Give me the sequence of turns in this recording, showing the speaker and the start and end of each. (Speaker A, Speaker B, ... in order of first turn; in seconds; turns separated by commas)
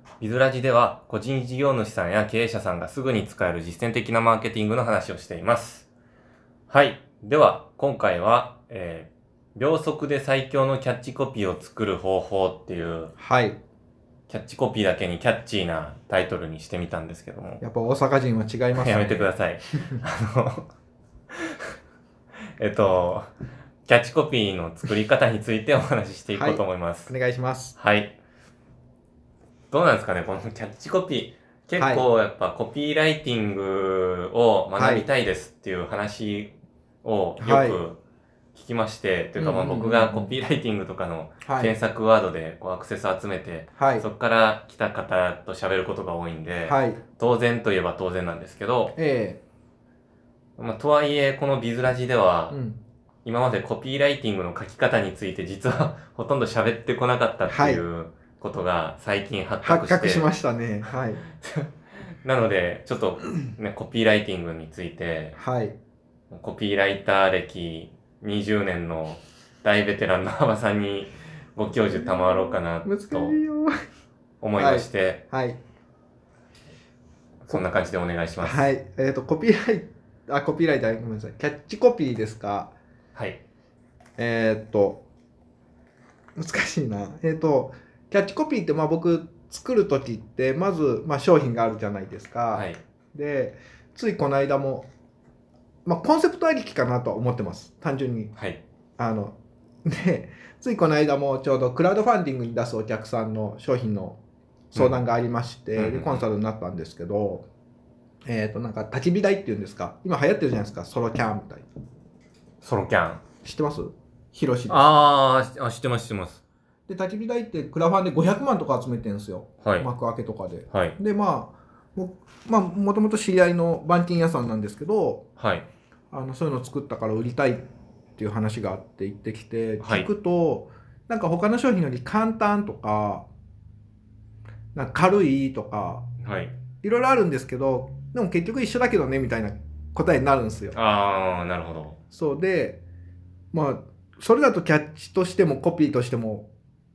Speaker A: 0.2-5.9, Speaker A: 6.7-13.1, Speaker B: 13.2-13.6, Speaker A: 14.3-17.6, Speaker B: 17.6-19.3, Speaker A: 18.8-20.7, Speaker A: 21.3-21.7, Speaker A: 22.6-23.3, Speaker A: 23.9-27.1, Speaker B: 26.3-27.8, Speaker A: 27.8-28.1, Speaker A: 29.7-36.5, Speaker B: 31.8-32.1, Speaker B: 34.8-35.1, Speaker A: 37.0-38.0, Speaker B: 37.4-37.8, Speaker A: 38.5-49.0, Speaker B: 39.4-40.3, Speaker B: 41.4-41.8, Speaker B: 43.8-44.1, Speaker B: 46.7-47.0, Speaker B: 49.0-49.4, Speaker A: 50.6-52.6, Speaker B: 52.5-52.8, Speaker A: 53.2-60.3, Speaker B: 57.5-57.9, Speaker B: 59.6-61.2, Speaker A: 61.4-65.4, Speaker B: 65.4-65.8, Speaker A: 66.3-73.3, Speaker B: 71.9-73.7, Speaker A: 74.4-75.2, Speaker B: 74.6-75.6, Speaker A: 77.5-78.7, Speaker B: 78.4-82.7, Speaker A: 83.2-83.4, Speaker B: 84.2-85.0, Speaker B: 86.4-94.9, Speaker A: 92.5-92.8, Speaker B: 95.8-98.3, Speaker A: 98.4-98.6, Speaker B: 99.0-104.2, Speaker B: 104.7-107.5, Speaker A: 104.8-105.0, Speaker A: 105.8-106.2, Speaker B: 108.3-111.7, Speaker A: 112.6-113.2, Speaker B: 113.4-115.0, Speaker A: 114.7-116.4, Speaker B: 116.9-125.2, Speaker A: 119.6-119.9, Speaker A: 120.7-121.0, Speaker A: 125.4-125.7, Speaker B: 126.1-127.6, Speaker B: 128.2-133.3, Speaker A: 129.8-130.1, Speaker B: 134.8-136.0, Speaker A: 136.2-136.6, Speaker B: 136.8-140.8, Speaker A: 140.7-142.0, Speaker B: 142.1-142.8, Speaker B: 143.5-146.5